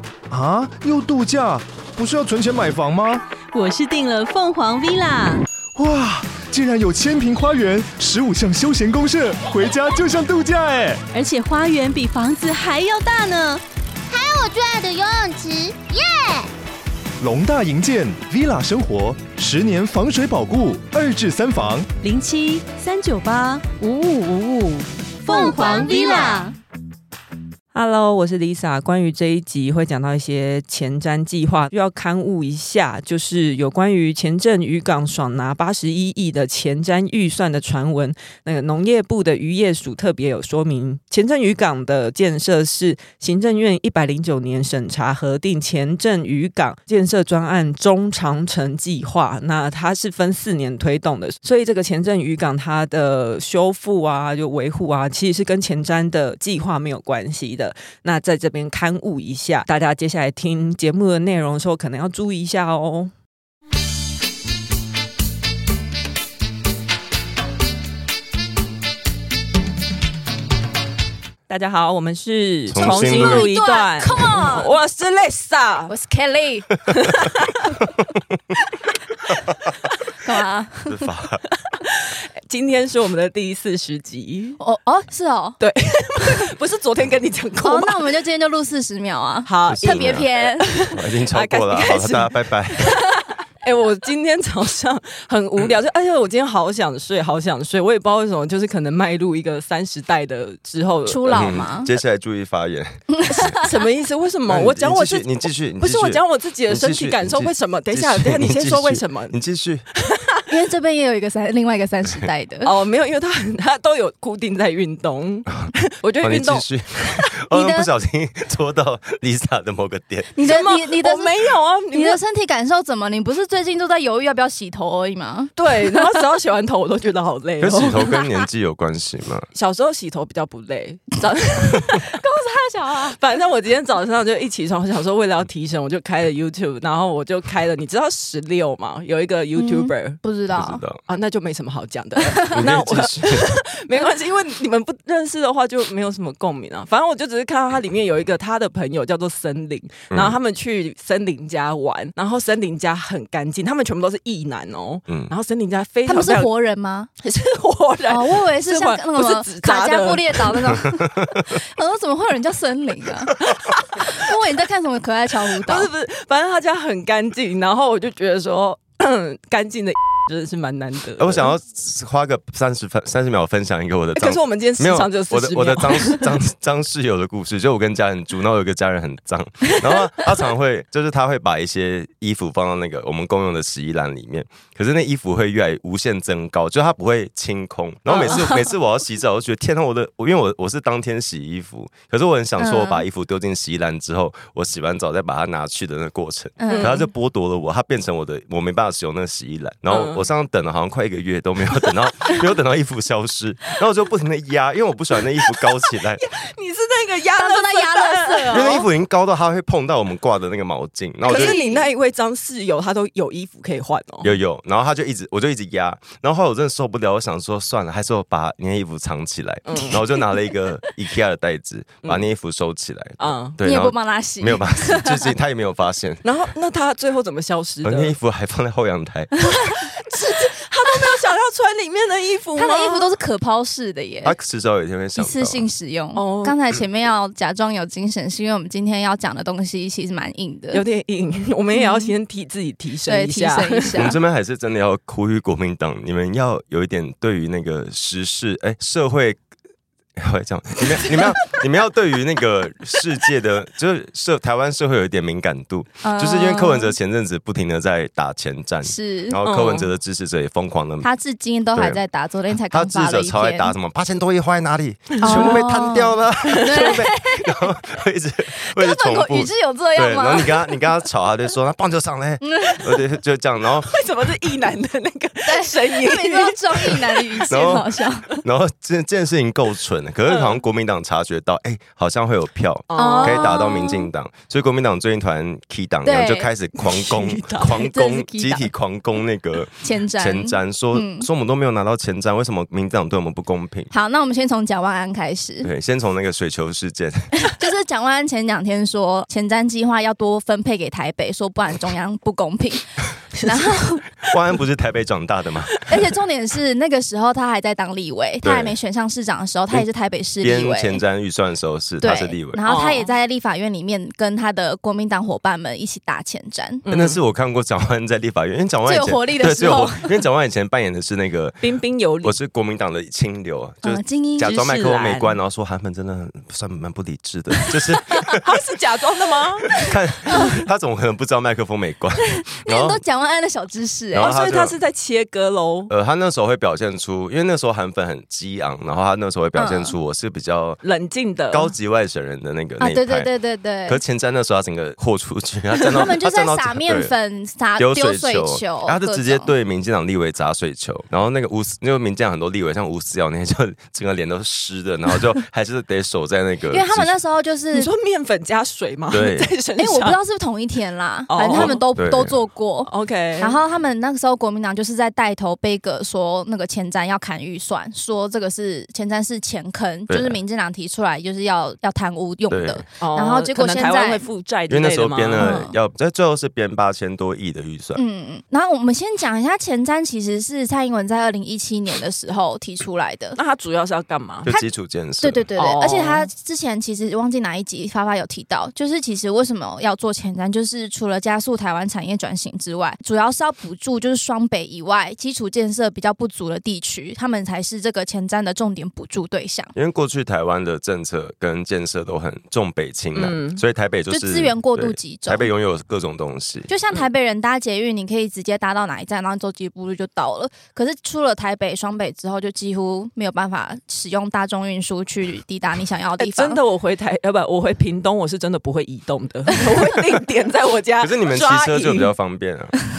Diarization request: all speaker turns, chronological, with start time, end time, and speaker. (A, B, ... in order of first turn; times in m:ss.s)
0:00.3-0:03.2 A
0:03.5-0:05.4 B
0:05.7-0:11.0 A
0:11.1-0:13.6 B
0:14.1-0:16.5 C
0:17.2-0:21.9 A
0:22.0-0:26.5 B
0:25.3-0:26.5 C
0:27.7-1:03.1 D
1:11.5-1:15.9 D
1:12.7-1:13.5 E
1:12.8-1:14.7 F
1:15.9-1:16.7 F
1:17.0-1:17.5 D
1:20.2-1:21.1 F
1:20.8-1:21.4 E
1:21.7-1:24.6 D
1:24.6-1:25.6 F
1:25.6-1:28.0 D
1:27.6-1:30.8 F
1:29.4-1:33.0 D
1:29.7-1:30.3 E
1:30.8-1:32.9 E
1:33.6-1:41.6 D
1:41.0-1:41.9 F
1:41.3-1:43.5 E
1:43.1-1:43.7 F
1:43.3-1:49.4 D
1:44.5-1:49.8 E
1:49.9-1:50.4 D
1:50.5-1:52.7 F
1:52.6-1:57.3 D
1:56.2-2:00.3 E
1:57.5-1:57.9 F
2:00.3-2:01.4 F
2:00.4-2:02.2 D
2:01.9-2:05.5 F
2:05.6-2:08.0 D
2:07.6-2:09.5 E
2:09.5-2:12.2 D
2:12.1-2:13.2 F
2:13.2-2:20.2 D
2:19.5-2:20.8 F
2:20.5-2:21.0 E
2:21.1-2:36.5 D
2:22.3-2:22.6 F
2:22.5-2:23.5 E
2:30.1-2:30.4 E
2:36.0-2:37.1 F
2:37.2-2:40.7 D
2:38.1-2:43.4 F
2:43.4-2:44.3 D
2:43.9-2:45.9 F
2:45.6-2:51.5 D
2:51.2-3:26.2 E
2:54.2-2:56.3 D
3:08.1-3:08.5 D
3:08.3-3:08.5 F
3:12.6-3:13.0 F
3:16.6-3:17.0 F
3:16.7-3:17.0 D
3:19.9-3:20.2 D
3:26.2-3:28.8 D
3:27.4-3:28.8 F
3:28.5-3:31.6 E
3:31.2-3:31.9 F
3:31.2-3:34.3 D
3:34.2-3:46.3 E
3:39.7-3:40.1 D
3:43.2-3:43.6 D
3:43.6-3:45.3 F
3:46.2-3:48.1 D
3:47.8-3:49.3 E
3:49.5-3:49.7 F
3:49.8-3:53.1 D
3:52.6-3:54.4 F
3:54.2-3:55.6 E
3:55.2-4:00.8 F
3:56.1-3:56.6 D
4:00.7-4:04.1 D
4:01.7-4:02.1 F
4:03.0-4:04.1 F
4:03.9-4:09.4 E
4:10.2-4:21.1 E
4:16.0-4:16.9 F
4:18.8-4:19.4 F
4:19.4-4:19.9 D
4:21.0-4:23.7 F
4:21.8-4:22.0 E
4:22.5-4:34.0 E
4:25.1-4:25.6 D
4:25.2-4:27.7 F
4:28.5-4:30.8 F
4:32.4-4:32.9 F
4:33.9-4:37.8 D
4:35.4-4:38.3 F
4:37.5-4:53.9 E
4:42.9-4:43.9 D
4:42.9-4:44.0 F
4:46.0-4:46.5 F
4:47.0-4:47.8 D
4:47.7-4:48.7 F
4:49.8-4:51.3 F
4:53.9-4:55.7 F
4:55.6-4:57.4 E
4:57.5-5:04.0 F
5:04.2-5:05.8 E
5:05.9-5:11.0 F
5:08.4-5:08.7 E
5:10.4-5:12.6 E
5:12.0-5:16.8 F
5:12.6-5:13.1 D
5:16.8-5:17.2 D
5:16.9-5:21.6 E
5:18.8-5:20.1 F
5:21.6-5:22.4 D
5:22.2-5:28.4 E
5:23.8-5:24.6 F
5:24.4-5:25.4 D
5:28.2-5:29.9 D
5:29.8-5:33.0 E
5:32.5-5:34.3 F
5:34.1-5:34.7 E
5:34.2-5:35.9 D
5:35.9-5:40.8 E
5:39.6-5:39.9 F
5:40.8-5:41.7 D
5:41.5-5:43.3 E
5:42.8-5:44.0 F
5:43.8-5:47.1 E
5:45.8-5:49.5 F
5:47.8-5:57.1 E
5:56.7-5:57.9 F
5:57.7-6:00.2 D
5:59.1-5:59.5 E
5:59.8-6:14.2 F
6:01.3-6:01.8 D
6:01.5-6:02.4 E
6:02.8-6:03.6 D
6:10.1-6:10.4 E
6:12.5-6:12.8 E
6:13.0-6:15.6 D
6:14.7-6:18.0 E
6:15.4-6:15.7 F
6:17.9-6:23.4 F
6:23.4-6:24.5 D
6:24.4-6:25.4 E
6:25.2-6:39.7 F
6:25.6-6:26.3 D
6:39.7-6:46.7 E
6:43.1-6:43.6 D
6:44.1-6:45.5 F
6:46.7-6:56.6 F
6:56.2-7:02.1 D
7:01.0-7:02.7 E